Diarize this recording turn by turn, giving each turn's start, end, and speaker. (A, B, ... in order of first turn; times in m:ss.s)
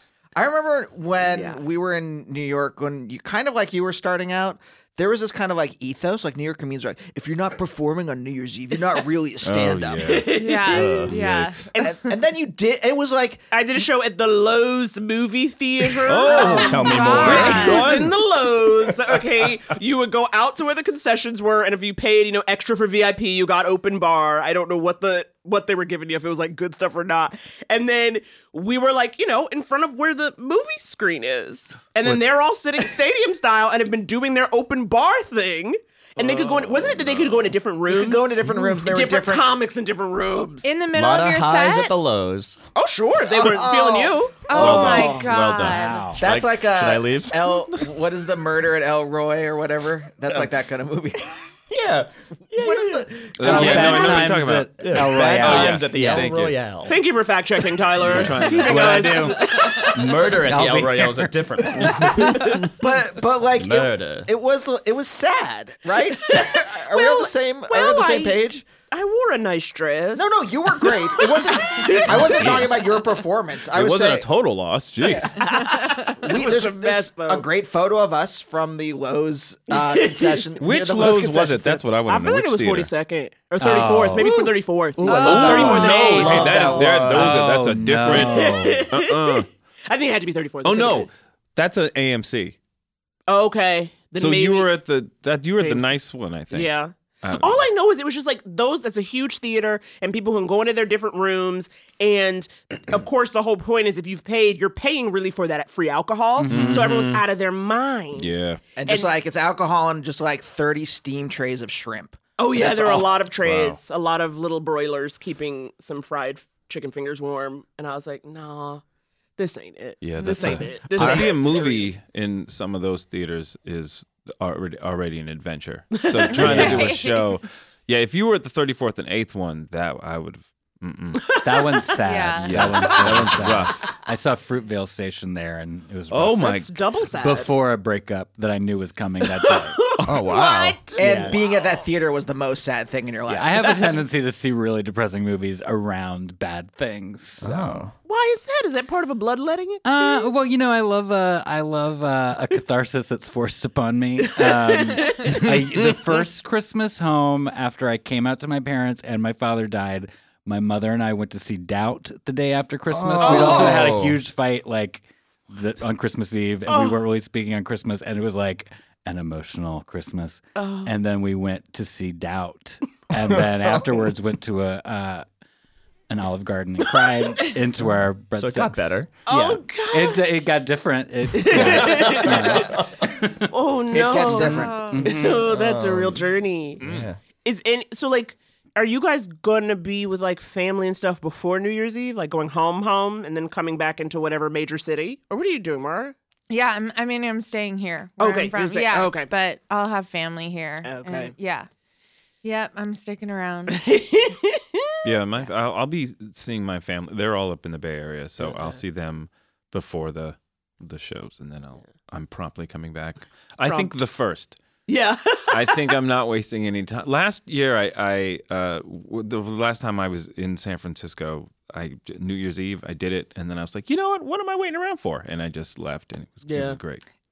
0:00.4-0:10.2 A
0:01.3-0:01.6 B
0:09.4-0:10.4 C
0:10.1-0:11.0 B
0:10.4-0:11.9 D
0:10.7-0:11.1 E
0:11.1-0:11.7 C
0:11.7-0:12.0 B
0:11.8-0:13.4 A
0:13.5-0:40.7 B
0:16.1-0:18.1 C
0:16.3-0:18.1 E
0:16.3-0:17.9 D
0:36.2-0:37.6 C
0:37.9-0:39.5 A
0:40.6-0:42.0 D
0:40.9-0:42.6 E
0:42.8-0:44.6 B
0:43.3-0:45.3 A
0:44.5-0:46.1 D
0:44.6-0:45.8 C
0:45.6-0:46.2 F
0:46.2-0:51.3 A
0:46.2-0:47.5 E
0:51.7-0:57.0 E
0:52.6-0:53.8 A
0:53.4-0:56.6 C
0:53.4-0:56.2 F
0:56.9-1:00.2 B
0:58.0-0:59.2 C
0:58.0-0:58.8 E
0:58.6-0:59.9 F
0:59.7-1:02.7 E
1:00.4-1:02.6 F
1:02.6-1:08.6 A
1:03.6-1:04.3 E
1:06.3-1:12.6 B
1:10.1-1:14.3 A
1:12.1-1:12.8 C
1:13.7-1:15.4 C
1:15.0-1:15.3 A
1:15.4-1:17.5 B
1:16.0-1:21.8 A
1:19.7-1:20.5 B
1:20.6-1:22.9 C
1:22.1-1:31.1 B
1:23.6-1:24.2 C
1:23.6-1:24.3 F
1:25.0-1:28.9 F
1:25.0-1:26.3 D
1:25.2-1:29.5 C
1:30.6-1:32.5 C
1:33.3-1:34.7 B
1:34.2-1:37.7 C
1:35.6-1:35.9 B
1:36.5-1:48.3 B
1:46.4-1:47.0 F
1:46.5-1:47.2 C
1:48.1-1:48.6 C
1:48.8-1:53.1 A
1:48.8-1:49.1 B
1:52.4-1:58.8 B
1:53.4-1:53.8 E
1:59.4-2:01.9 B
2:00.0-2:11.4 C
2:06.0-2:06.7 B
2:06.4-2:06.9 F
2:06.4-2:07.2 D
2:11.4-2:16.5 F
2:12.0-2:12.7 D
2:12.4-2:14.0 C
2:16.1-2:16.8 C
2:16.4-2:17.5 B
2:17.2-2:20.2 F
2:19.2-2:21.6 B
2:20.0-2:21.0 E
2:21.0-2:21.4 F
2:21.0-2:23.7 A
2:23.3-2:27.8 F
2:27.4-2:27.9 E
2:28.0-2:29.8 B
2:29.8-2:55.2 F
2:34.4-2:35.4 B
2:35.8-2:36.1 C
2:42.9-2:44.2 E
2:43.2-2:43.8 B
2:46.7-2:47.0 B
2:50.6-2:50.9 B
2:53.2-2:53.9 E
2:56.1-3:03.1 F
2:57.8-2:59.1 E
2:59.2-3:00.2 B
3:01.3-3:02.7 B
3:01.5-3:02.6 E
3:03.5-3:06.8 B
3:03.9-3:04.9 A
3:04.4-3:05.5 F
3:05.0-3:07.2 E
3:06.8-3:07.1 C
3:07.4-3:16.2 B
3:16.5-3:21.7 D
3:18.2-3:19.3 B
3:20.8-3:21.3 B
3:22.4-3:23.8 D
3:23.7-3:24.8 B
3:25.0-3:34.6 C
3:28.4-3:28.8 B
3:33.6-3:33.9 B
3:34.9-3:35.8 B
3:35.5-3:47.0 C
3:46.4-3:46.8 B